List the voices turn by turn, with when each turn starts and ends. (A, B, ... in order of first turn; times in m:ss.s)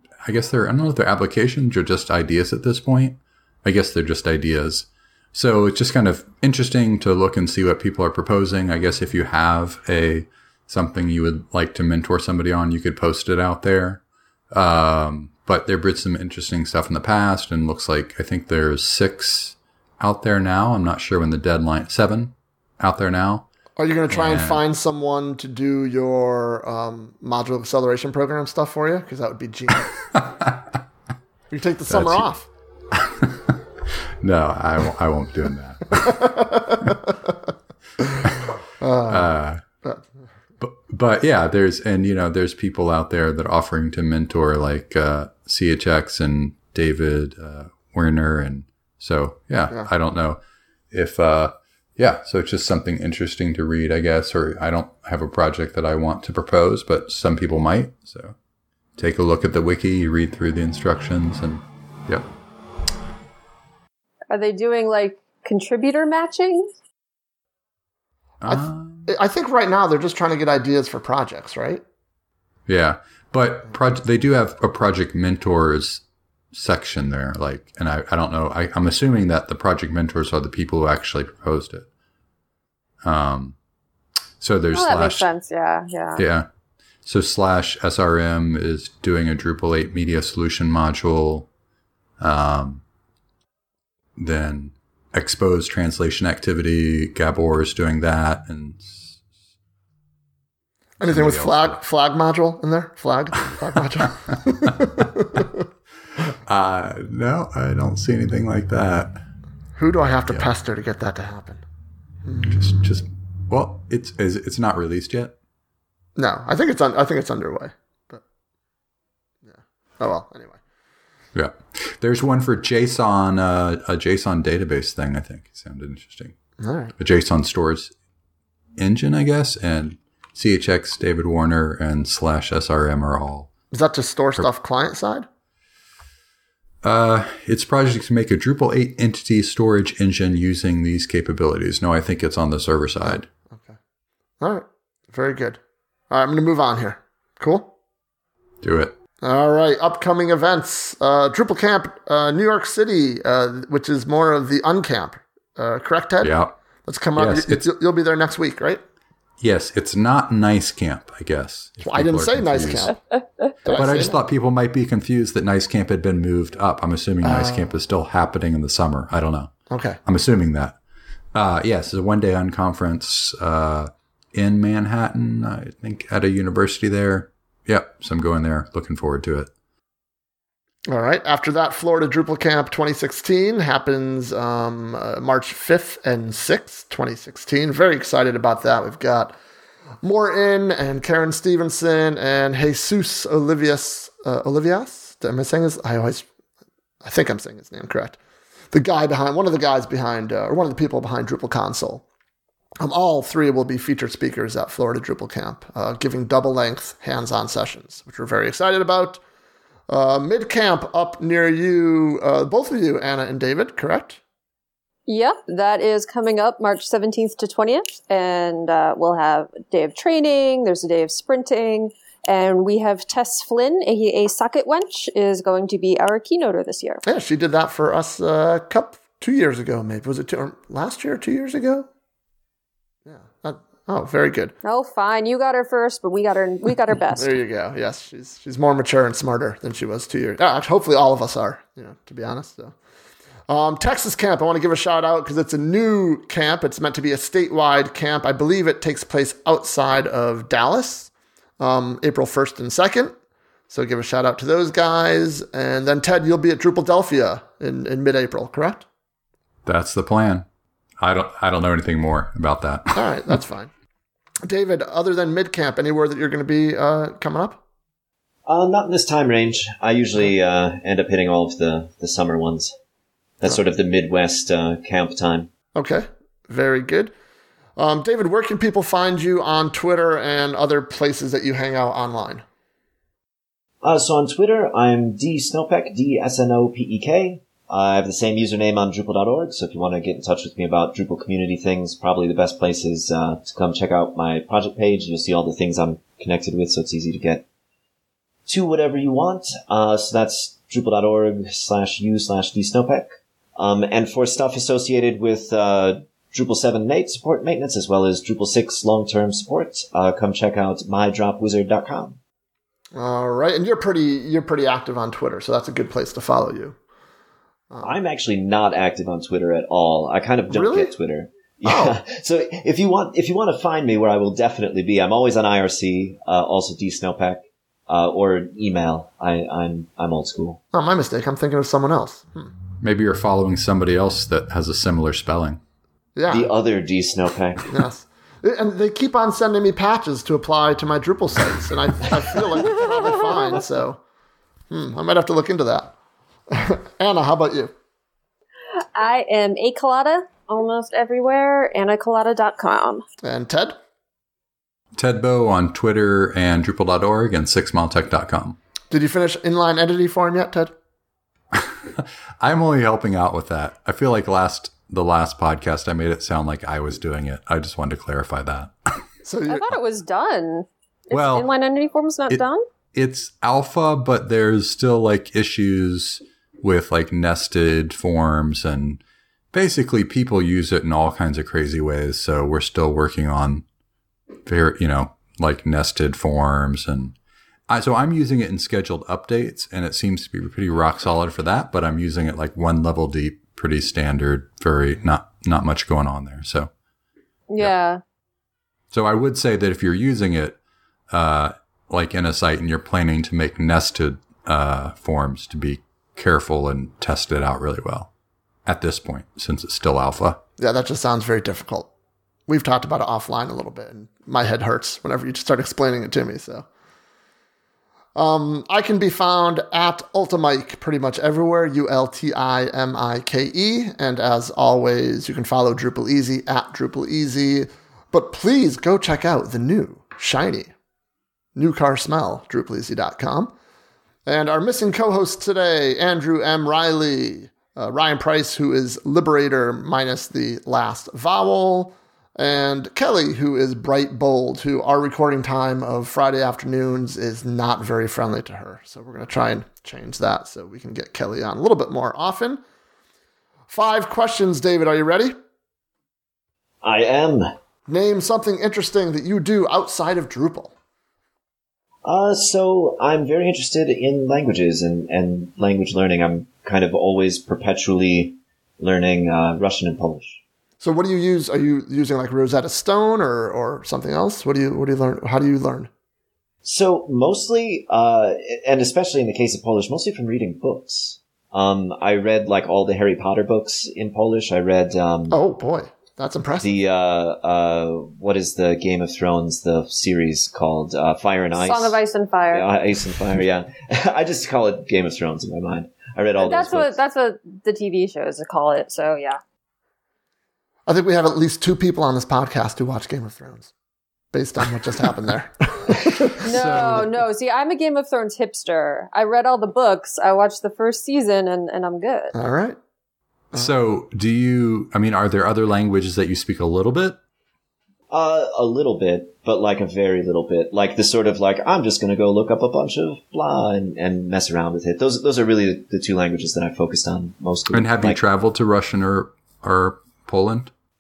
0:00.2-0:23.5 A
0:23.8-0:30.0 B
0:24.1-0:24.6 A
0:31.5-0:32.5 B
0:31.9-0:32.3 A
0:33.2-0:36.3 A
0:36.0-0:37.3 B
0:38.8-0:39.3 B
0:39.1-0:39.6 A
0:40.6-0:50.4 A
0:50.9-0:58.4 A
0:59.0-1:02.3 A
1:04.3-1:06.7 C
1:08.4-1:09.1 A
1:08.5-1:11.8 B
1:12.7-1:21.9 A
1:23.0-1:23.6 A
1:24.4-1:25.3 A
1:24.7-1:26.2 C
1:26.2-1:26.5 A
1:27.0-1:31.5 A
1:32.2-1:32.8 A
1:34.2-1:39.2 A
1:41.0-1:41.8 A
1:41.0-1:45.7 B
1:44.3-1:44.8 A
1:46.5-1:49.2 A
1:49.8-1:51.6 B
1:52.2-1:52.5 B
1:52.4-1:55.4 A
1:56.2-1:58.2 B
1:59.4-2:00.6 B
2:01.4-2:06.4 A
2:06.6-2:06.9 B
2:07.0-2:07.9 A
2:08.8-2:13.5 A
2:13.7-2:15.3 B
2:16.8-2:23.3 A
2:23.0-2:23.8 B
2:24.4-2:27.7 B
2:28.6-2:28.9 A
2:29.2-2:38.8 B
2:36.2-2:36.6 A
2:37.2-2:37.7 A
2:39.4-2:42.9 A
2:41.8-2:43.0 B
2:43.6-2:44.2 B
2:43.7-2:49.5 A
2:47.2-2:47.7 B
2:49.7-2:50.0 B
2:50.0-2:50.8 A
2:51.3-2:59.5 A
3:00.9-3:09.4 B
3:10.0-3:16.3 B
3:17.0-3:18.2 B
3:18.7-3:22.0 B
3:22.8-3:29.2 B
3:29.9-3:34.2 B
3:35.1-3:47.0 C
3:47.0-3:51.9 B
3:53.1-3:54.6 B
3:54.6-3:57.3 C
3:57.2-4:02.8 B
4:03.5-4:13.2 B
4:13.7-4:18.9 B
4:19.6-4:20.5 A
4:21.0-4:23.2 A
4:23.0-4:23.7 B
4:24.4-4:27.6 B
4:28.5-4:32.7 D
4:33.4-4:35.5 D
4:35.8-4:37.1 B
4:37.8-4:42.4 B
4:43.8-4:57.4 D
4:58.5-5:12.2 D
5:12.9-5:16.8 B
5:17.7-5:18.0 B
5:17.8-5:30.6 D
5:20.5-5:20.9 B
5:21.6-5:22.0 B
5:30.7-5:32.5 B
5:32.8-5:35.6 A
5:36.2-5:36.5 B
5:36.3-5:37.7 D
5:37.7-5:44.0 B
5:44.7-5:45.9 B
5:46.5-5:47.7 B
5:49.0-5:53.0 C
5:53.2-5:53.8 B
5:55.0-5:58.6 A
5:58.9-6:00.7 B
6:01.5-6:09.0 A
6:09.2-6:09.8 B
6:09.5-6:12.7 C
6:11.1-6:11.5 A
6:12.3-6:19.0 A
6:19.5-6:23.6 A
6:24.5-6:27.2 A
6:27.7-6:36.7 A
6:37.5-6:38.0 C
6:38.9-6:40.6 A
6:41.1-6:48.1 A
6:48.7-6:50.4 A
6:50.6-6:51.9 B
6:52.5-6:56.7 B
6:58.2-7:10.7 B
7:11.6-7:13.5 B
7:14.3-7:32.6 B
7:33.7-7:35.4 B
7:36.8-7:37.5 D
7:37.9-7:40.7 B
7:42.0-7:50.4 D
7:50.8-7:55.9 B
7:56.6-8:05.4 D
8:05.3-8:06.7 B
8:06.6-8:12.0 D
8:11.6-8:12.7 C
8:12.5-8:17.0 D
8:16.4-8:19.4 C
8:20.9-8:23.7 B
8:24.3-8:27.0 B
8:26.4-8:27.2 A
8:26.4-8:32.4 C
8:32.3-8:32.8 B
8:33.5-8:37.2 A
8:38.1-8:48.2 D
8:47.7-8:50.7 A